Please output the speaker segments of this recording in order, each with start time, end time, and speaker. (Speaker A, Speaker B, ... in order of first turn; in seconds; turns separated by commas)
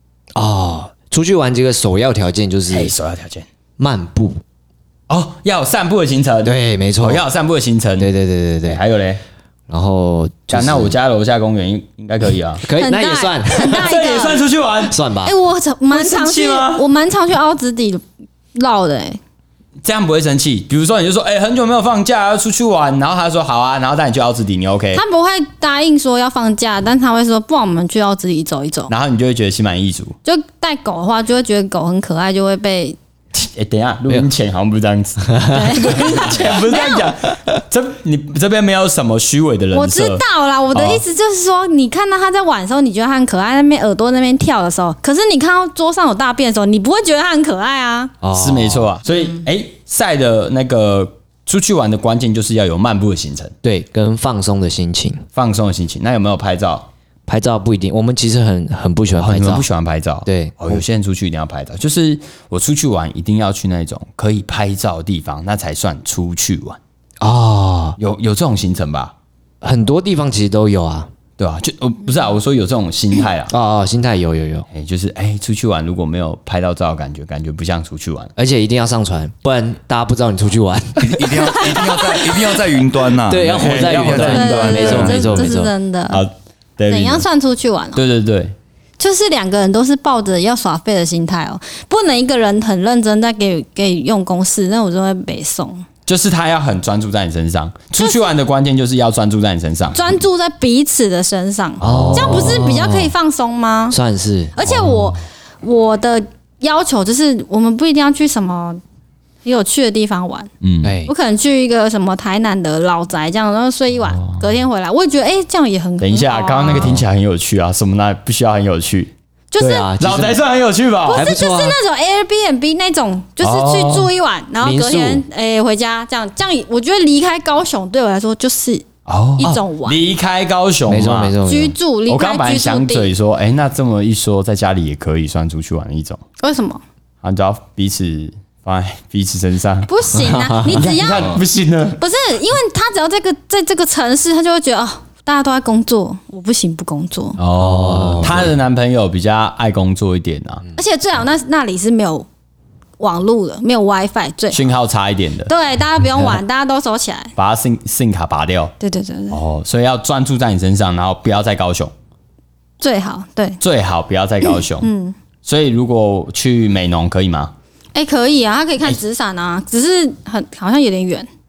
Speaker A: 0.4-2.9, Speaker B: 2.7-3.5, Speaker A: 3.8-4.4, Speaker B: 5.1-8.1, Speaker A: 6.4-7.2, Speaker A: 8.0-8.8, Speaker B: 8.6-9.2, Speaker A: 9.7-10.9, Speaker B: 10.5-12.7, Speaker A: 12.6-13.9, Speaker C: 12.7-14.4, Speaker B: 13.6-15.0, Speaker A: 14.9-15.4, Speaker C: 15.2-19.2, Speaker B: 15.9-16.9, Speaker B: 19.8-25.0, Speaker C: 24.9-28.9, Speaker B: 28.9-30.2, Speaker C: 30.2-33.0, Speaker B: 33.3-41.0, Speaker C: 35.4-37.1, Speaker C: 39.7-48.2, Speaker A: 48.2-48.9, Speaker B: 48.3-53.5, Speaker A: 53.6-55.2, Speaker B: 55.3-56.9, Speaker A: 57.3-59.7, Speaker B: 59.2-66.8, Speaker A: 60.3-60.8, Speaker A: 67.2-68.0, Speaker B: 68.0-69.1, Speaker A: 69.6-71.1, Speaker B: 71.4-73.5, Speaker A: 73.5-74.7, Speaker B: 74.7-78.3, Speaker A: 78.4-81.6, Speaker D: 81.0-85.4, Speaker C: 81.4-82.3, Speaker A: 83.3-85.7, Speaker B: 83.6-85.2, Speaker C: 84.1-86.2, Speaker B: 86.1-87.3, Speaker C: 86.9-88.0, Speaker B: 87.9-88.5, Speaker C: 89.0-95.9, Speaker B: 96.1-100.1, Speaker C: 98.0-98.2, Speaker C: 99.9-104.0, Speaker A: 101.8-103.1, Speaker B: 101.8-102.6, Speaker A: 103.9-104.6, Speaker C: 104.5-108.8, Speaker B: 104.6-105.2, Speaker C: 109.5-110.5, Speaker B: 110.6-111.0, Speaker A: 110.8-111.1, Speaker C: 111.0-117.0, Speaker B: 114.1-114.5, Speaker B: 116.0-119.1, Speaker C: 119.5-119.9, Speaker A: 119.6-120.4, Speaker B: 119.7-121.3, Speaker C: 121.0-128.9, Speaker A: 121.1-121.8, Speaker B: 123.4-124.1, Speaker A: 124.6-125.2, Speaker B: 129.1-131.4, Speaker C: 129.4-130.0, Speaker A: 130.9-131.8, Speaker C: 131.5-133.1, Speaker B: 132.1-136.2, Speaker C: 136.4-136.8, Speaker B: 137.2-139.9, Speaker C: 139.9-141.3, Speaker A: 140.3-140.8, Speaker B: 140.7-142.0, Speaker C: 142.0-147.4, Speaker B: 147.4-150.6, Speaker A: 147.6-148.5, Speaker C: 150.7-152.3, Speaker C: 153.0-154.7, Speaker B: 154.5-155.5, Speaker C: 155.5-157.3, Speaker B: 157.4-158.7, Speaker C: 158.8-159.4, Speaker B: 159.3-161.9, Speaker C: 162.8-163.6, Speaker B: 163.6-164.9, Speaker C: 164.8-165.2, Speaker B: 165.4-167.5, Speaker C: 167.9-171.3